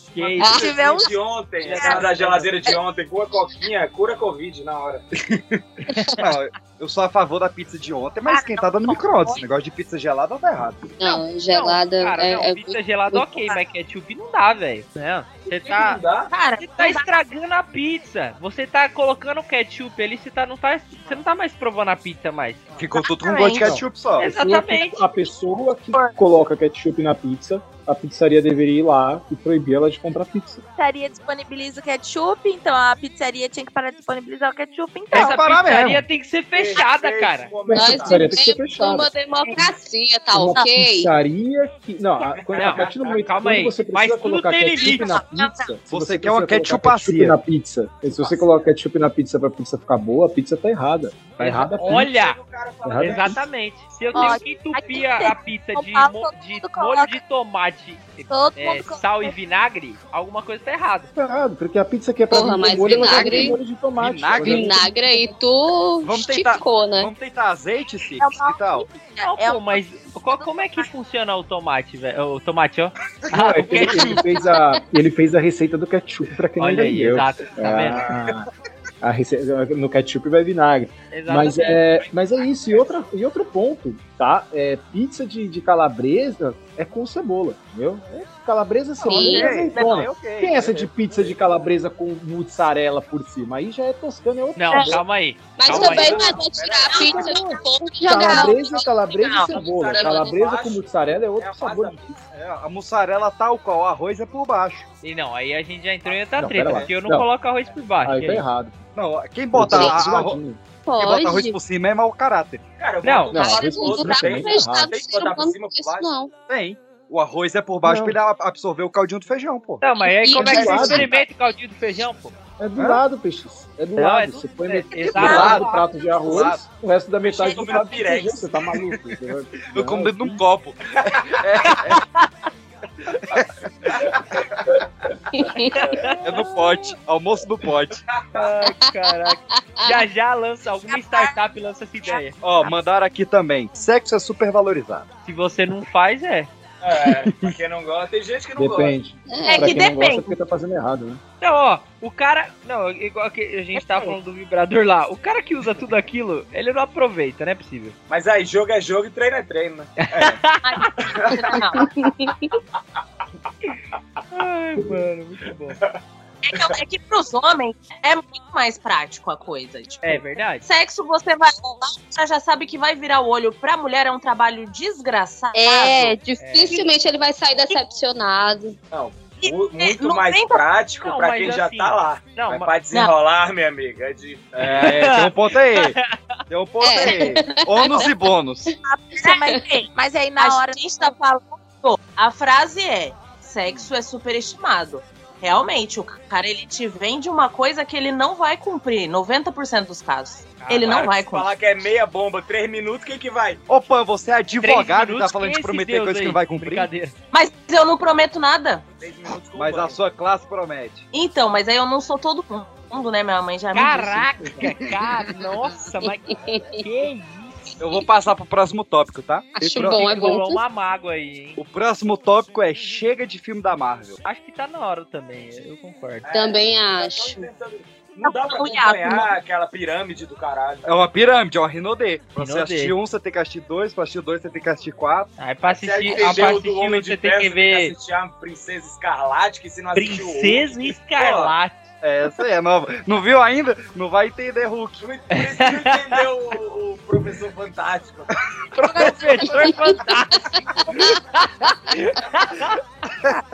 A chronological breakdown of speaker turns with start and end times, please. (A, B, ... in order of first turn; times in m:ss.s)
0:00.1-0:00.8 A
0:00.2-0:05.0 B
0:00.4-0:01.2 C
0:00.4-0:00.7 D
0:01.6-0:02.7 A
0:05.1-0:05.6 E
0:06.2-0:10.9 E
0:08.3-0:09.4 C
0:11.0-0:13.4 D
0:11.0-0:16.0 A
0:15.5-0:16.3 B
0:16.3-0:17.1 F
0:16.6-0:22.6 A
0:22.8-0:24.3 E
0:22.9-0:23.8 F
0:23.5-0:30.6 G
0:24.2-0:25.0 A
0:30.8-0:35.4 C
0:35.1-0:36.0 E
0:35.1-0:37.5 A
0:36.5-0:38.4 B
0:37.7-0:39.1 G
0:37.7-0:41.1 D
0:40.3-0:52.1 G
0:42.2-0:43.4 B
0:42.6-0:45.2 A
0:45.0-0:45.7 F
0:45.9-0:47.4 E
0:48.1-0:48.5 B
0:51.4-0:52.4 A
0:51.8-0:53.4 B
0:52.8-0:53.4 G
0:53.0-1:01.1 A
0:54.1-0:57.2 C
0:58.3-0:59.3 C
1:01.2-1:04.9 G
1:02.3-1:03.6 D
1:03.0-1:04.8 E
1:04.4-1:07.1 D
1:04.9-1:05.3 C
1:06.0-1:08.8 E
1:08.2-1:10.9 C
1:09.2-1:14.2 A
1:13.3-1:18.5 G
1:14.3-1:14.8 D
1:16.6-1:18.1 A
1:19.0-1:35.0 G
1:21.1-1:21.8 A
1:22.4-1:22.9 B
1:29.0-1:29.6 D
1:29.1-1:30.9 E
1:34.6-1:36.2 A
1:35.6-1:39.4 D
1:35.7-1:37.4 B
1:35.8-1:36.3 G
1:36.8-1:37.6 F
1:37.2-1:42.1 G
1:38.1-1:40.2 F
1:39.6-1:42.2 B
1:40.0-1:40.3 D
1:42.3-1:44.9 E
1:45.0-1:48.4 A
1:46.3-1:47.3 G
1:48.0-1:48.8 G
1:48.9-1:50.4 E
1:49.5-1:50.6 G
1:49.7-1:50.0 D
1:50.8-1:51.6 D
1:51.0-1:52.6 E
1:52.8-1:56.1 B
1:53.0-1:53.4 A
1:53.3-1:55.0 G
1:53.3-1:56.3 D
1:56.5-1:59.8 E
1:57.8-1:58.2 G
1:59.8-2:02.3 A
2:00.0-2:01.1 D
2:00.4-2:01.1 G
2:02.6-2:10.2 G
2:02.8-2:03.0 E
2:04.0-2:05.8 A
2:05.1-2:05.7 E
2:06.2-2:06.6 E
2:07.2-2:08.5 B
2:09.6-2:12.0 E
2:11.7-2:12.3 A
2:13.3-2:14.1 E
2:15.3-2:15.8 D
2:15.7-2:16.2 A
2:16.2-2:18.0 E
2:18.3-2:22.4 A
2:19.3-2:20.0 D
2:20.9-2:21.3 C
2:22.4-2:25.1 E
2:25.2-2:26.5 A
2:26.8-2:29.0 B
2:28.6-2:31.2 G
2:29.3-2:29.8 D
2:29.5-2:30.3 F
2:31.4-2:38.0 A
2:38.1-2:40.4 B
2:40.0-2:40.9 A
2:40.6-2:41.9 F
2:41.0-2:41.3 B
2:41.8-2:42.1 D
2:44.3-2:45.8 A
2:46.4-2:56.2 F
2:50.0-2:50.6 A
2:55.5-2:56.4 C
2:56.3-2:58.8 D
2:56.4-2:56.8 A
2:58.9-3:04.9 B
2:59.4-3:00.6 F
3:01.0-3:02.7 A
3:04.6-3:06.0 E
3:04.6-3:06.2 A
3:06.5-3:08.7 E
3:06.8-3:08.1 D
3:08.8-3:11.2 C
3:09.4-3:09.7 D
3:10.4-3:21.5 F
3:20.6-3:21.1 A
3:20.8-3:23.6 B
3:23.7-3:26.9 E
3:24.6-3:27.1 A
3:27.3-3:28.8 F
3:29.0-3:30.0 B
3:29.6-3:31.0 E
3:31.1-3:34.6 F
3:33.7-3:37.7 A
3:36.0-3:36.8 D
3:37.8-3:40.1 E
3:39.6-3:40.6 D
3:39.8-3:41.6 A
3:41.6-3:44.2 E
3:44.2-3:46.2 A
3:46.2-3:50.9 B
3:46.3-3:47.4 D
3:48.2-3:49.3 F
3:50.8-3:55.3 E
3:52.4-3:53.0 A
3:55.4-3:57.9 A
3:55.7-4:01.5 B
3:56.1-3:56.6 E
3:59.9-4:01.9 A
4:02.0-4:05.0 E
4:05.0-4:08.4 B
4:05.3-4:06.2 A
4:08.8-4:12.8 A
4:09.4-4:11.2 D